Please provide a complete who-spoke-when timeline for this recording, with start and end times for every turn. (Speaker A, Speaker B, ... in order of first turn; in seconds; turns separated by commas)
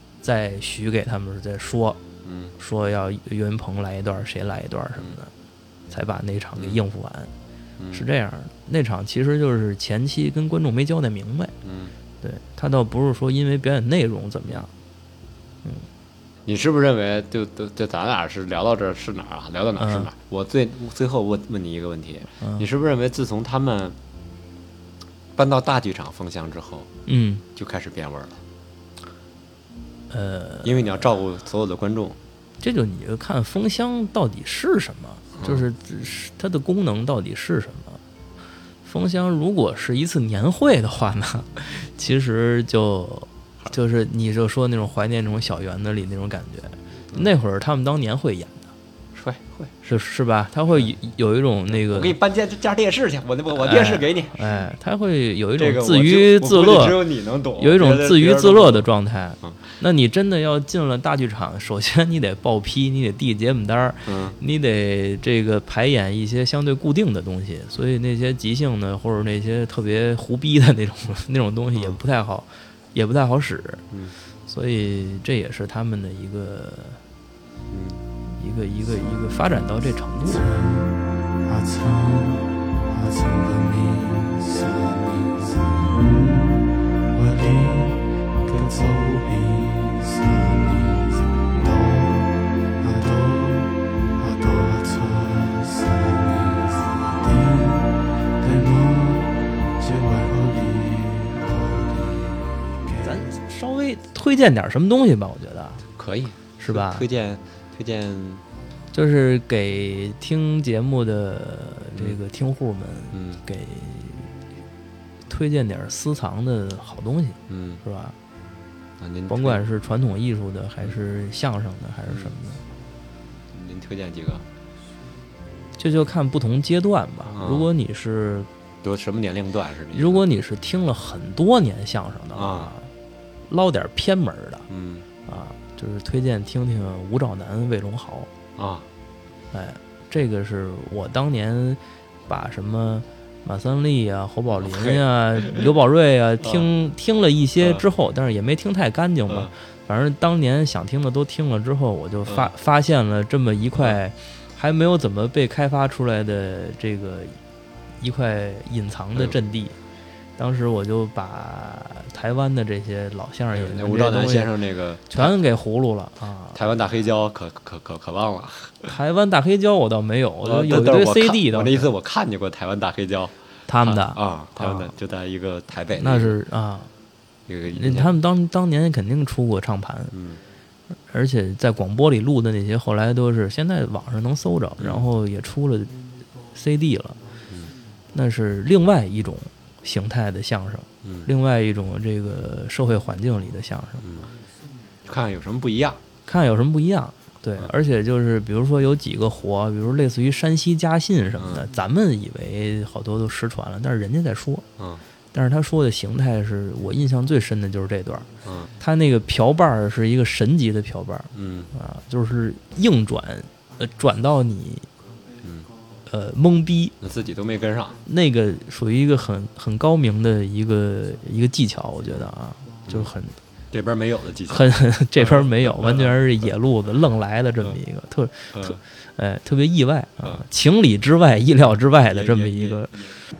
Speaker A: 0.2-2.0, Speaker B: 2.2-2.5, Speaker A: 2.6-5.3, Speaker A: 5.9-7.3, Speaker B: 6.5-6.8, Speaker B: 7.8-8.1, Speaker A: 7.9-11.5, Speaker B: 11.6-11.9, Speaker A: 12.2-14.7, Speaker B: 16.4-24.0, Speaker A: 19.8-20.1, Speaker A: 22.4-22.7, Speaker B: 25.4-26.9, Speaker A: 27.1-27.4, Speaker B: 27.5-28.4, Speaker A: 30.1-31.1, Speaker B: 30.6-32.2, Speaker A: 32.6-38.0, Speaker B: 35.4-35.6, Speaker A: 38.8-48.7, Speaker B: 49.1-49.7, Speaker A: 49.8-52.1, Speaker B: 51.7-54.5, Speaker A: 53.5-57.0, Speaker B: 55.6-58.9, Speaker A: 57.6-73.8, Speaker B: 64.1-64.4, Speaker B: 71.7-72.0, Speaker A: 74.5-77.0, Speaker B: 77.7-78.0, Speaker A: 78.3-80.5, Speaker C: 80.2-103.2, Speaker A: 103.0-105.8, Speaker B: 106.0-108.4, Speaker A: 106.6-107.0, Speaker A: 108.9-114.3, Speaker B: 113.1-113.4, Speaker A: 115.3-118.1, Speaker B: 117.5-117.8, Speaker B: 119.0-119.6, Speaker A: 119.3-122.6, Speaker B: 123.5-124.4, Speaker A: 125.8-128.5, Speaker B: 127.3-127.7, Speaker B: 128.8-130.2, Speaker A: 129.9-132.9, Speaker B: 132.3-132.7, Speaker A: 133.5-134.7, Speaker B: 134.7-135.1, Speaker A: 135.3-138.3, Speaker B: 138.6-138.8, Speaker A: 139.5-157.3, Speaker B: 144.6-145.6, Speaker B: 146.4-146.7, Speaker B: 147.6-147.8, Speaker B: 152.2-152.5, Speaker A: 158.0-159.7, Speaker A: 160.4-164.6, Speaker B: 163.5-165.3, Speaker A: 165.1-166.7, Speaker B: 166.5-168.9, Speaker A: 168.8-171.9, Speaker B: 170.4-176.4, Speaker A: 173.7-174.9, Speaker A: 176.0-176.9, Speaker B: 177.5-178.2, Speaker A: 177.7-180.1, Speaker B: 180.1-180.4, Speaker A: 181.1-185.9, Speaker B: 184.8-185.1, Speaker A: 186.5-187.2, Speaker A: 188.1-194.0, Speaker B: 191.0-191.3, Speaker B: 194.0-194.3, Speaker B: 195.0-196.0, Speaker A: 196.2-204.6, Speaker B: 201.3-201.6, Speaker B: 204.8-205.0, Speaker A: 205.3-208.3, Speaker B: 208.4-208.7, Speaker A: 208.8-214.9, Speaker B: 211.3-211.7, Speaker B: 215.4-215.7, Speaker A: 216.1-216.9, Speaker B: 217.0-218.0, Speaker A: 218.1-223.3, Speaker B: 223.7-226.2, Speaker A: 224.5-232.9, Speaker B: 228.5-228.8, Speaker B: 232.1-233.2